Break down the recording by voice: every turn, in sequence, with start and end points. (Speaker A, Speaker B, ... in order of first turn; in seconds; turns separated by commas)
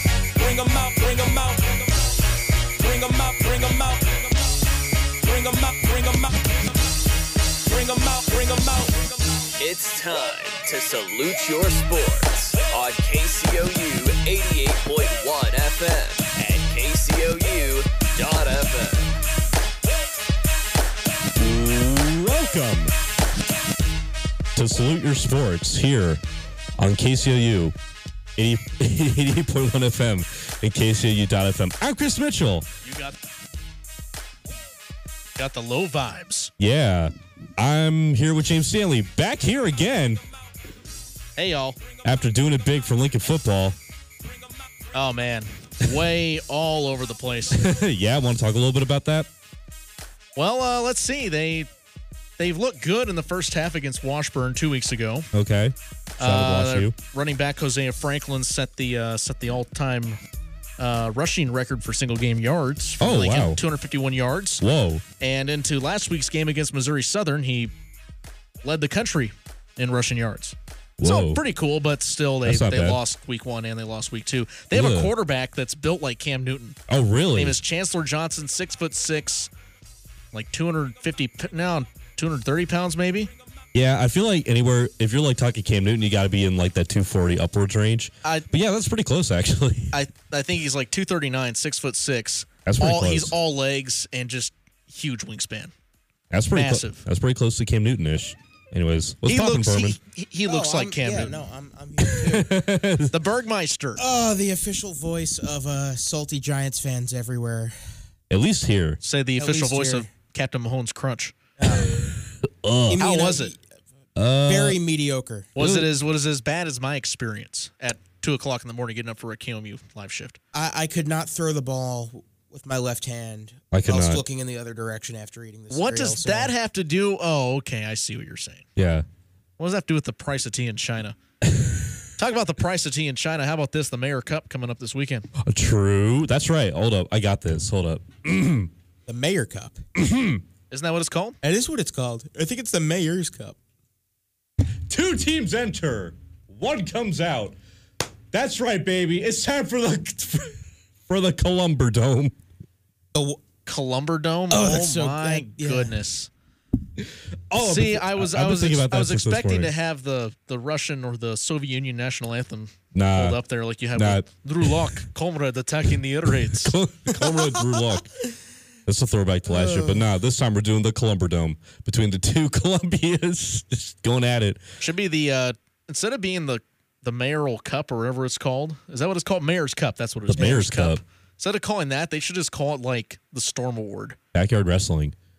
Speaker A: 0.4-1.9, Speaker A: 2.8-4.3, Speaker A: 5.2-6.4, Speaker A: 7.7-9.4, Speaker B: 9.6-19.2, Speaker C: 21.4-22.9, Speaker C: 24.6-26.2, Speaker C: 26.8-27.8, Speaker C: 28.4-32.7, Speaker D: 32.9-33.2, Speaker D: 35.4-36.5, Speaker C: 36.6-40.2, Speaker D: 41.4-41.8, Speaker C: 42.0-43.8, Speaker D: 44.9-47.6, Speaker C: 47.5-49.3, Speaker D: 50.4-51.7, Speaker D: 52.4-55.3, Speaker C: 55.3-57.0, Speaker D: 56.2-60.2, Speaker D: 60.8-64.6, Speaker C: 63.0-63.6, Speaker C: 64.6-65.0, Speaker D: 65.2-67.7, Speaker D: 68.6-76.8, Speaker C: 71.0-71.4, Speaker C: 72.5-73.0, Speaker C: 74.7-75.1, Speaker C: 76.9-77.6, Speaker D: 77.3-79.5, Speaker D: 80.3-83.3, Speaker C: 83.7-90.0, Speaker D: 88.2-88.5, Speaker D: 89.9-95.7, Speaker C: 92.7-93.3, Speaker C: 96.3-100.0, Speaker D: 96.5-97.0, Speaker D: 99.3-101.4, Speaker E: 100.5-102.5, Speaker C: 102.0-103.1, Speaker D: 103.1-104.0, Speaker E: 104.0-107.8, Speaker C: 108.3-109.0, Speaker D: 109.0-111.4, Speaker E: 109.4-110.1, Speaker E: 111.6-112.1, Speaker C: 111.7-113.1, Speaker E: 112.9-113.6, Speaker D: 113.0-113.5, Speaker C: 114.2-114.8, Speaker E: 114.5-115.6, Speaker D: 115.6-120.4, Speaker C: 115.6-115.9, Speaker E: 120.5-126.5, Speaker C: 123.7-124.2, Speaker D: 125.7-128.7, Speaker C: 128.8-129.1, Speaker D: 129.6-131.2, Speaker C: 131.5-131.9, Speaker D: 132.2-135.3, Speaker C: 135.4-138.7, Speaker E: 139.1-139.8, Speaker C: 140.0-140.4, Speaker D: 140.7-141.4, Speaker E: 141.4-143.6, Speaker C: 144.9-147.6, Speaker C: 148.3-152.3, Speaker E: 153.1-153.4, Speaker D: 153.7-156.3, Speaker E: 154.5-155.9, Speaker C: 157.0-159.7, Speaker D: 157.6-166.7, Speaker C: 162.9-163.4, Speaker C: 163.9-164.7, Speaker C: 166.4-168.1, Speaker E: 167.2-167.9, Speaker C: 168.9-174.6, Speaker E: 169.5-170.0, Speaker D: 174.8-184.2, Speaker C: 180.3-181.0, Speaker C: 184.3-185.2